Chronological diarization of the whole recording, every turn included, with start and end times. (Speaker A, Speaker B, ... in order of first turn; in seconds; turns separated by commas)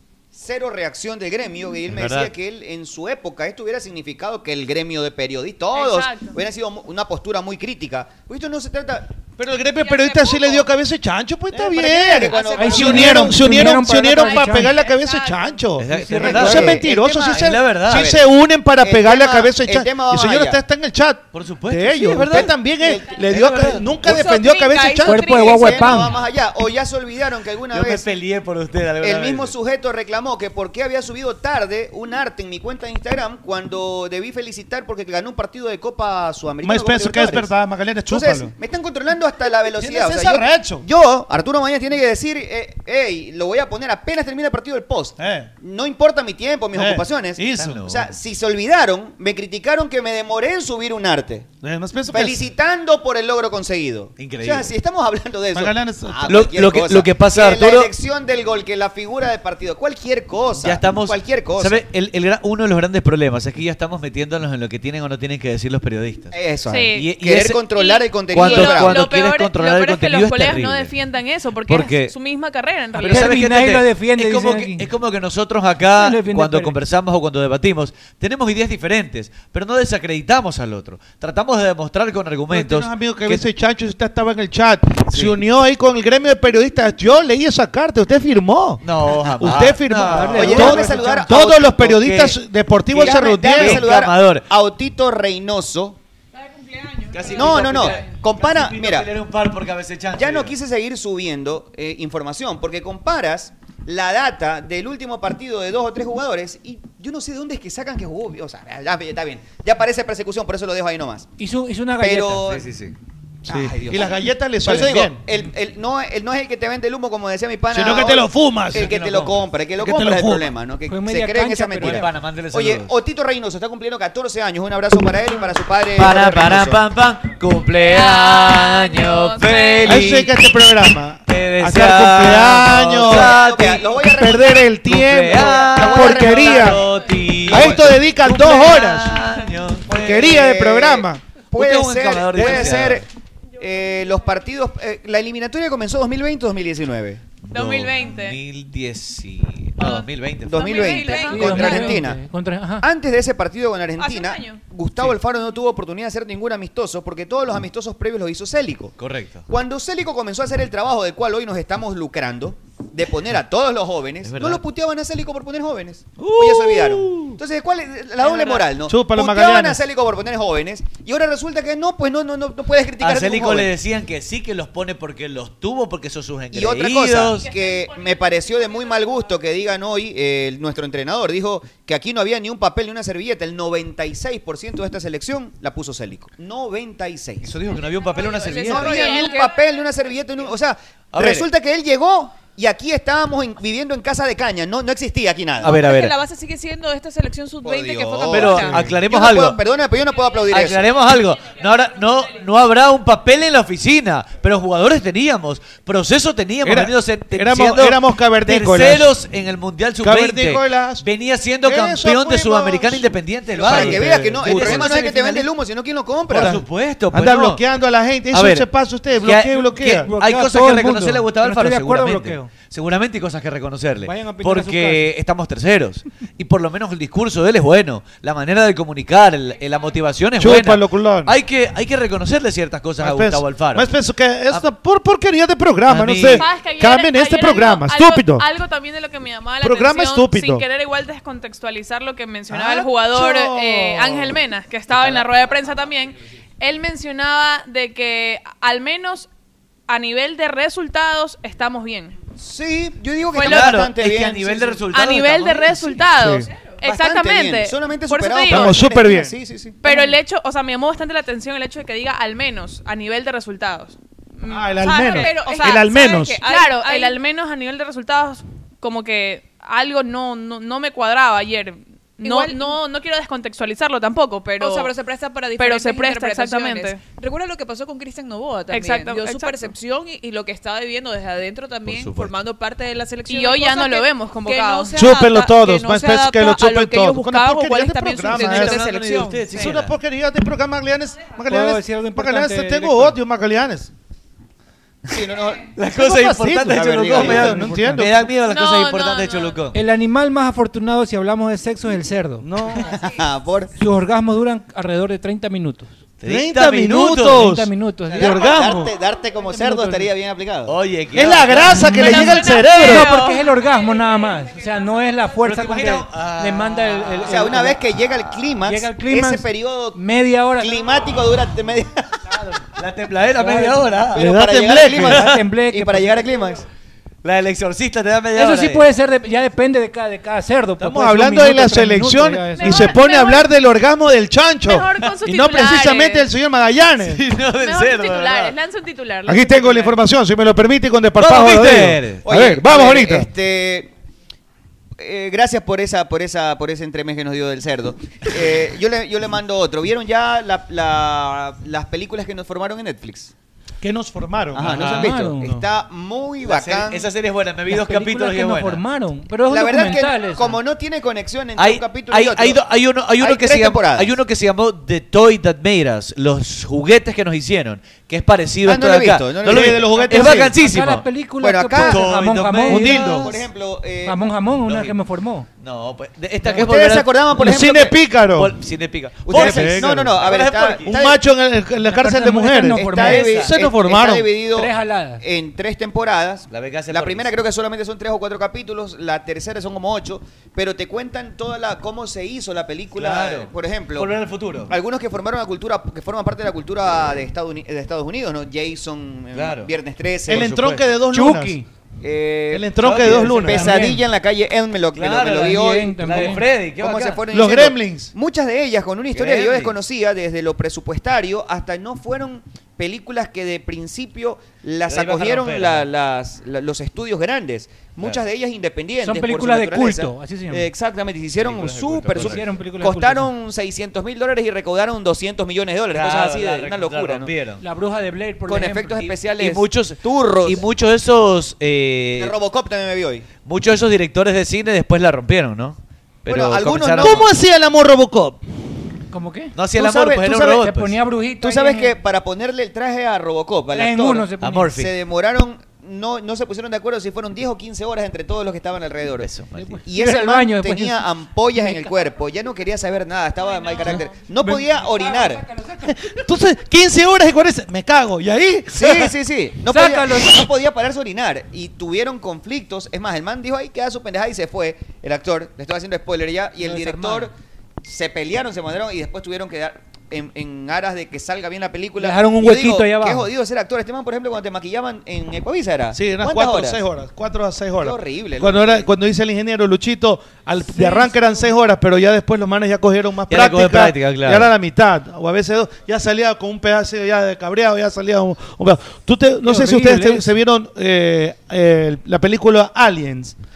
Speaker A: 0.3-9.2, Speaker B: 1.9-2.3, Speaker C: 5.7-6.3, Speaker D: 9.4-26.1, Speaker C: 9.8-10.6, Speaker A: 11.5-13.6, Speaker C: 12.3-13.1, Speaker E: 12.6-14.8, Speaker C: 14.2-15.7, Speaker B: 15.8-18.1, Speaker E: 15.9-16.6, Speaker A: 16.1-18.3, Speaker A: 18.8-20.6, Speaker B: 21.3-22.6, Speaker A: 22.2-23.2, Speaker B: 23.1-23.8, Speaker C: 24.0-26.0, Speaker E: 25.0-26.2, Speaker A: 25.1-28.1, Speaker B: 27.7-29.6, Speaker A: 29.0-37.5, Speaker D: 36.6-38.5, Speaker A: 38.1-51.5, Speaker D: 39.8-40.8, Speaker D: 45.2-45.5, Speaker D: 46.7-47.8, Speaker B: 47.5-48.1, Speaker D: 51.6-52.4, Speaker A: 52.1-61.8, Speaker B: 54.2-54.7, Speaker D: 55.5-56.3, Speaker B: 56.2-57.9, Speaker B: 60.6-66.3, Speaker A: 66.3-69.0, Speaker C: 66.7-67.1, Speaker B: 66.9-70.9, Speaker C: 67.7-73.3, Speaker B: 71.7-72.1, Speaker E: 73.0-74.9, Speaker B: 73.0-83.5, Speaker E: 75.9-76.8, Speaker D: 82.5-93.8, Speaker B: 85.1-85.4, Speaker B: 88.8-92.3, Speaker E: 90.0-91.2, Speaker A: 90.3-91.9, Speaker A: 92.9-96.0, Speaker B: 93.4-94.5, Speaker B: 97.1-100.5, Speaker A: 97.3-99.1, Speaker A: 100.1-111.3, Speaker E: 111.4-112.4, Speaker A: 112.0-112.7, Speaker B: 112.4-113.0, Speaker D: 113.5-115.2, Speaker A: 113.5-126.8, Speaker D: 117.7-118.8, Speaker B: 118.7-119.4, Speaker D: 119.8-120.5, Speaker E: 120.9-122.0, Speaker B: 121.8-122.9, Speaker B: 126.0-130.3, Speaker C: 127.8-130.0, Speaker D: 129.8-133.3, Speaker B: 131.3-134.0, Speaker A: 133.0-134.8, Speaker D: 134.0-136.8, Speaker B: 134.8-140.6, Speaker A: 135.3-136.9, Speaker A: 137.5-137.8, Speaker D: 137.5-139.2, Speaker D: 139.9-141.2, Speaker A: 140.1-143.1, Speaker B: 141.5-143.1, Speaker A: 143.6-147.2, Speaker B: 147.4-151.0, Speaker C: 147.5-148.4, Speaker A: 150.4-152.2, Speaker C: 150.6-151.9, Speaker F: 150.6-151.6, Speaker E: 151.2-152.9, Speaker A: 152.8-158.9, Speaker C: 154.0-154.4, Speaker B: 159.0-159.4, Speaker A: 159.5-173.7, Speaker B: 164.2-164.6, Speaker B: 166.4-167.2, Speaker D: 168.8-169.8, Speaker B: 173.0-177.5, Speaker A: 176.5-187.6, Speaker C: 177.4-179.3, Speaker B: 187.4-189.3, Speaker F: 188.3-188.7, Speaker C: 188.3-189.6, Speaker A: 188.6-195.8, Speaker B: 191.1-191.5, Speaker B: 195.6-196.1, Speaker F: 195.6-198.8, Speaker A: 197.6-200.9, Speaker B: 198.3-199.6, Speaker D: 198.5-198.9, Speaker B: 200.5-215.4, Speaker D: 206.6-209.1, Speaker D: 210.0-211.1, Speaker D: 211.6-215.0, Speaker A: 213.6-216.6, Speaker B: 216.3-217.6, Speaker D: 216.3-220.1, Speaker B: 218.3-218.7, Speaker B: 219.2-233.9, Speaker E: 220.0-222.5, Speaker E: 224.1-224.9, Speaker D: 224.1-225.0, Speaker D: 230.4-231.3, Speaker D: 233.0-238.4, Speaker B: 235.9-236.5, Speaker C: 236.4-249.3, Speaker D: 239.6-240.6, Speaker D: 242.5-244.4, Speaker B: 244.9-245.2, Speaker C: 249.9-252.2, Speaker A: 252.4-254.8, Speaker C: 253.3-253.8, Speaker B: 253.3-256.0, Speaker C: 254.9-258.7, Speaker D: 256.1-256.5, Speaker A: 256.8-260.1, Speaker D: 258.5-259.3, Speaker C: 259.8-274.9, Speaker D: 264.4-266.4, Speaker F: 264.8-267.2, Speaker F: 272.2-272.8, Speaker F: 274.5-289.5, Speaker C: 275.6-277.0, Speaker C: 278.7-279.7, Speaker B: 281.8-282.3, Speaker C: 283.3-284.9, Speaker D: 284.9-288.8, Speaker C: 287.2-288.7, Speaker B: 288.3-289.9, Speaker D: 289.5-293.9, Speaker E: 291.5-293.1, Speaker A: 295.1-295.7, Speaker B: 295.7-299.8, Speaker D: 295.9-298.1, Speaker A: 296.7-297.8, Speaker C: 298.4-299.6, Speaker E: 299.7-302.4, Speaker D: 302.4-302.9, Speaker A: 302.8-303.7, Speaker E: 303.8-305.9, Speaker B: 306.2-307.5, Speaker D: 306.2-308.9, Speaker E: 307.3-308.4, Speaker A: 308.1-310.7, Speaker E: 309.5-310.0, Speaker B: 310.7-312.4, Speaker D: 311.1-313.2, Speaker E: 311.7-317.8, Speaker C: 312.0-313.4, Speaker B: 315.4-317.6, Speaker A: 317.2-320.0, Speaker E: 318.6-320.8, Speaker A: 320.6-322.1, Speaker B: 322.4-324.2, Speaker E: 323.4-324.0, Speaker A: 324.1-326.6, Speaker D: 324.1-325.4, Speaker B: 325.0-325.4, Speaker E: 325.1-326.3, Speaker B: 327.2-328.9, Speaker E: 328.3-333.0, Speaker D: 330.8-337.2, Speaker C: 332.5-333.5, Speaker C: 334.6-336.3, Speaker B: 337.0-338.6, Speaker C: 337.6-339.9, Speaker D: 339.3-343.3, Speaker B: 341.2-342.2, Speaker A: 342.2-343.9, Speaker A: 345.0-353.3, Speaker D: 353.8-355.6, Speaker A: 354.5-357.1, Speaker B: 354.6-355.1, Speaker E: 354.9-355.5, Speaker B: 356.4-358.8, Speaker E: 357.7-360.6, Speaker A: 359.5-362.6, Speaker B: 361.6-371.1, Speaker A: 363.2-364.1, Speaker A: 368.6-369.9, Speaker D: 369.4-370.6, Speaker E: 370.0-373.3, Speaker A: 371.4-372.1, Speaker B: 371.7-373.0, Speaker D: 372.7-373.3, Speaker A: 372.8-374.2, Speaker E: 374.1-375.5, Speaker B: 374.6-375.0, Speaker B: 375.6-377.1, Speaker A: 376.5-377.9, Speaker D: 377.3-378.6, Speaker B: 378.4-380.9, Speaker A: 379.3-381.2, Speaker D: 379.3-380.2, Speaker D: 380.8-384.3, Speaker E: 381.8-383.3, Speaker A: 382.7-394.1, Speaker B: 383.0-383.6, Speaker E: 384.4-385.2, Speaker B: 386.5-387.3, Speaker B: 392.9-394.7, Speaker A: 394.7-400.5, Speaker B: 399.3-399.7, Speaker D: 400.3-401.6, Speaker B: 400.3-400.8, Speaker E: 401.1-401.6, Speaker A: 402.0-427.3, Speaker D: 402.5-403.9, Speaker B: 402.8-403.7, Speaker E: 403.5-404.0, Speaker B: 404.9-407.2, Speaker E: 405.3-406.5, Speaker D: 407.3-408.1, Speaker B: 409.1-409.7, Speaker B: 414.9-415.9, Speaker E: 419.0-420.7, Speaker B: 421.4-422.5, Speaker E: 422.1-423.3, Speaker B: 425.9-427.6, Speaker E: 427.6-429.1, Speaker A: 428.4-430.6, Speaker B: 429.0-432.3, Speaker A: 432.2-433.3, Speaker B: 433.4-437.3, Speaker A: 436.3-437.3, Speaker D: 437.0-438.4, Speaker E: 439.1-439.6, Speaker B: 439.6-441.0, Speaker D: 439.8-440.6, Speaker E: 440.5-441.9, Speaker A: 441.4-449.3, Speaker E: 443.7-444.7, Speaker B: 444.4-444.9, Speaker B: 449.2-449.8, Speaker E: 449.6-451.9, Speaker A: 449.8-455.4, Speaker E: 454.4-455.6, Speaker D: 455.8-459.1, Speaker A: 458.7-467.3, Speaker E: 459.6-460.5, Speaker B: 466.7-467.2, Speaker A: 467.8-476.8, Speaker E: 472.0-473.3, Speaker D: 475.9-493.4, Speaker A: 477.8-478.9, Speaker E: 480.7-481.5, Speaker B: 483.3-484.5, Speaker E: 489.4-490.3